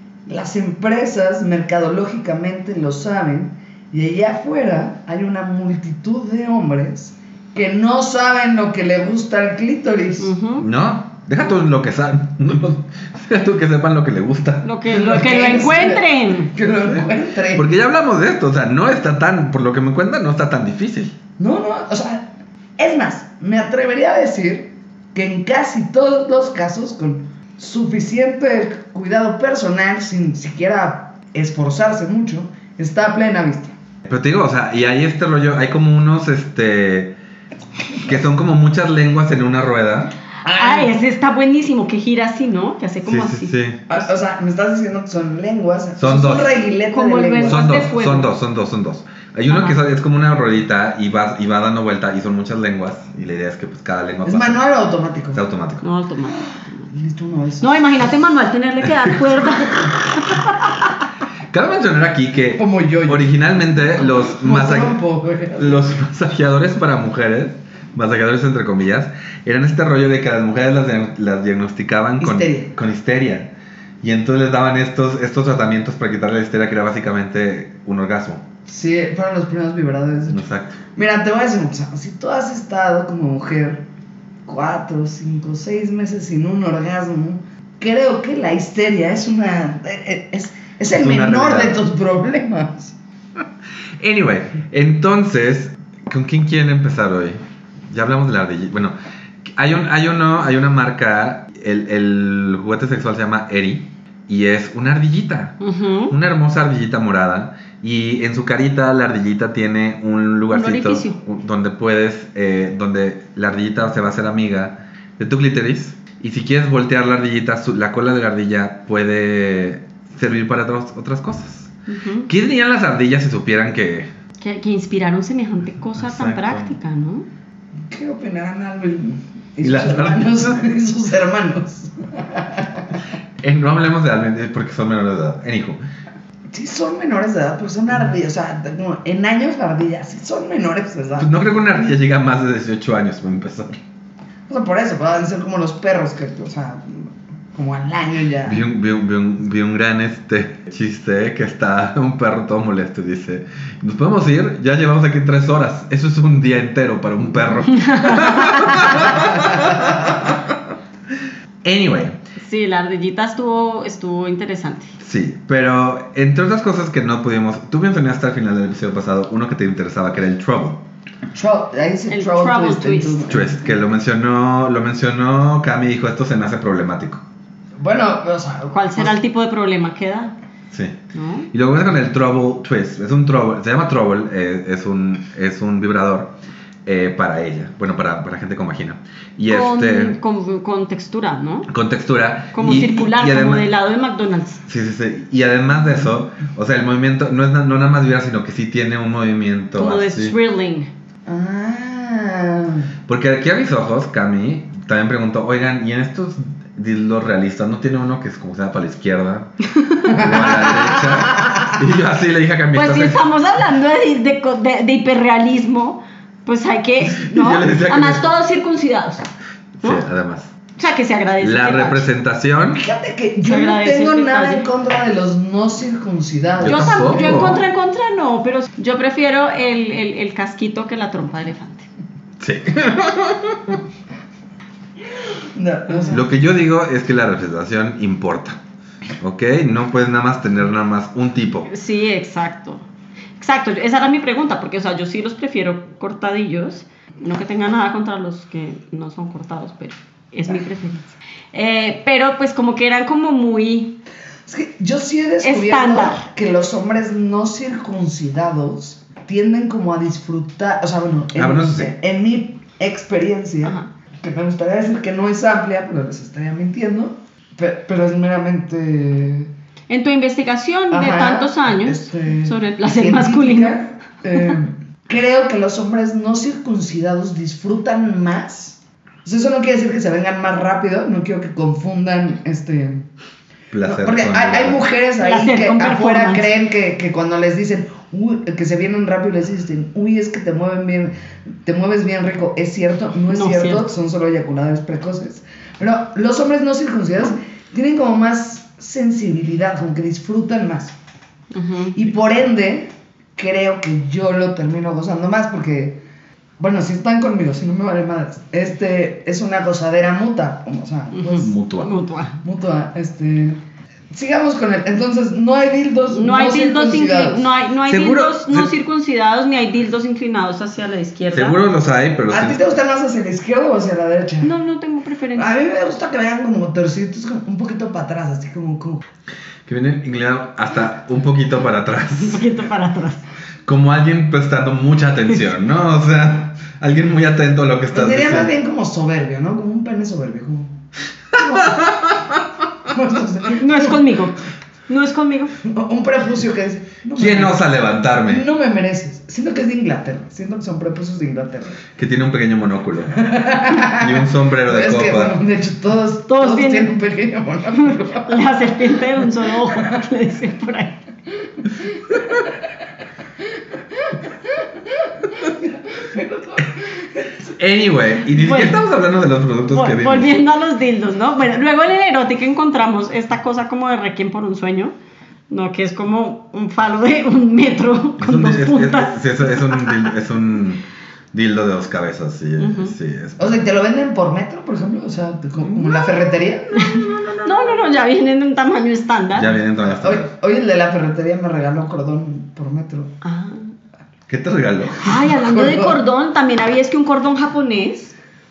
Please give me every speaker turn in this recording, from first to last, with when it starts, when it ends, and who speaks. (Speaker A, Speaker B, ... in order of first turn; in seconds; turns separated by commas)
Speaker A: 0.3-10.3, Speaker B: 10.2-10.7, Speaker C: 10.6-14.7, Speaker B: 14.6-16.5, Speaker A: 14.9-17.7, Speaker C: 16.8-21.1, Speaker A: 21.4-33.8, Speaker C: 34.1-37.2, Speaker C: 38.0-40.1, Speaker A: 40.5-40.9, Speaker B: 40.5-44.1, Speaker C: 43.1-43.8, Speaker A: 43.9-47.8, Speaker C: 46.0-46.6, Speaker B: 46.9-48.3, Speaker C: 47.5-54.6, Speaker B: 49.5-49.8, Speaker A: 54.2-55.4, Speaker C: 55.3-55.8, Speaker B: 55.8-56.9, Speaker A: 56.9-57.8, Speaker B: 57.6-60.7, Speaker C: 61.5-65.0, Speaker A: 62.6-63.4, Speaker A: 64.0-65.8, Speaker C: 65.6-78.4, Speaker A: 72.2-72.7, Speaker A: 78.7-83.8, Speaker C: 80.3-80.8, Speaker A: 84.5-93.0, Speaker C: 90.9-91.8, Speaker C: 94.0-121.7, Speaker B: 105.6-106.2, Speaker B: 110.5-111.2, Speaker B: 121.9-122.3, Speaker C: 122.3-124.1, Speaker B: 124.4-127.3, Speaker C: 126.0-126.8, Speaker A: 127.9-132.9, Speaker C: 129.6-130.6, Speaker C: 133.4-135.8, Speaker A: 136.5-141.3, Speaker C: 141.2-143.8, Speaker A: 144.5-148.6, Speaker C: 148.4-160.6, Speaker B: 157.7-159.2, Speaker C: 161.6-162.2, Speaker B: 162.4-164.9, Speaker C: 165.0-170.8, Speaker A: 171.3-173.8, Speaker B: 172.1-173.2, Speaker C: 173.3-177.2, Speaker A: 177.8-179.2, Speaker B: 178.7-180.3, Speaker C: 180.7-181.0, Speaker B: 181.1-181.5, Speaker C: 181.5-190.2, Speaker B: 189.5-191.7, Speaker C: 191.7-193.7, Speaker B: 192.5-194.6, Speaker C: 194.7-200.3, Speaker B: 199.8-200.9, Speaker A: 201.3-202.9, Speaker C: 203.1-209.5, Speaker B: 209.7-210.2, Speaker A: 210.1-211.8, Speaker C: 210.1-213.2, Speaker B: 212.7-219.3, Speaker C: 217.0-218.3, Speaker C: 219.8-220.5, Speaker B: 220.8-222.1, Speaker C: 221.4-222.8, Speaker A: 222.7-227.5, Speaker B: 223.4-224.7, Speaker C: 226.6-227.6, Speaker B: 226.6-231.9, Speaker C: 232.4-233.8, Speaker A: 235.6-236.3, Speaker C: 236.1-238.6, Speaker C: 239.2-241.7, Speaker B: 241.7-242.9, Speaker B: 243.4-254.0, Speaker A: 254.5-269.5, Speaker B: 255.4-256.2, Speaker C: 261.4-261.9, Speaker B: 263.6-263.9, Speaker B: 269.9-273.8, Speaker A: 270.9-283.1, Speaker C: 283.7-284.8, Speaker A: 283.8-300.9, Speaker B: 285.2-286.5, Speaker B: 293.3-293.9, Speaker B: 301.5-302.0, Speaker A: 301.9-306.0, Speaker A: 306.6-311.5, Speaker B: 311.1-312.4, Speaker C: 311.4-311.9, Speaker A: 312.4-313.6, Speaker A: 314.1-317.5, Speaker B: 316.1-321.6, Speaker C: 317.9-318.7, Speaker C: 321.3-322.6, Speaker A: 322.3-324.5, Speaker B: 324.4-325.5, Speaker A: 325.4-329.0, Speaker C: 329.7-332.5, Speaker B: 332.2-333.2, Speaker C: 333.7-338.5, Speaker A: 337.9-340.8, Speaker A: 341.3-342.2, Speaker C: 341.4-342.2, Speaker A: 342.9-344.2, Speaker B: 343.6-345.5, Speaker A: 345.6-347.7, Speaker C: 347.2-348.4, Speaker A: 348.2-351.8, Speaker C: 352.0-353.2, Speaker A: 353.2-358.9, Speaker C: 353.8-355.4, Speaker B: 356.3-356.9, Speaker B: 357.8-361.0, Speaker A: 364.1-367.4, Speaker C: 367.5-370.4, Speaker B: 368.3-368.8, Speaker B: 369.7-374.9, Speaker B: 375.5-380.1, Speaker C: 378.2-383.6, Speaker B: 382.6-382.9, Speaker A: 383.4-387.6, Speaker B: 386.7-389.6, Speaker C: 389.3-390.3, Speaker A: 389.9-393.1, Speaker B: 393.2-393.7, Speaker C: 394.3-395.1, Speaker B: 395.0-398.1, Speaker A: 395.1-396.0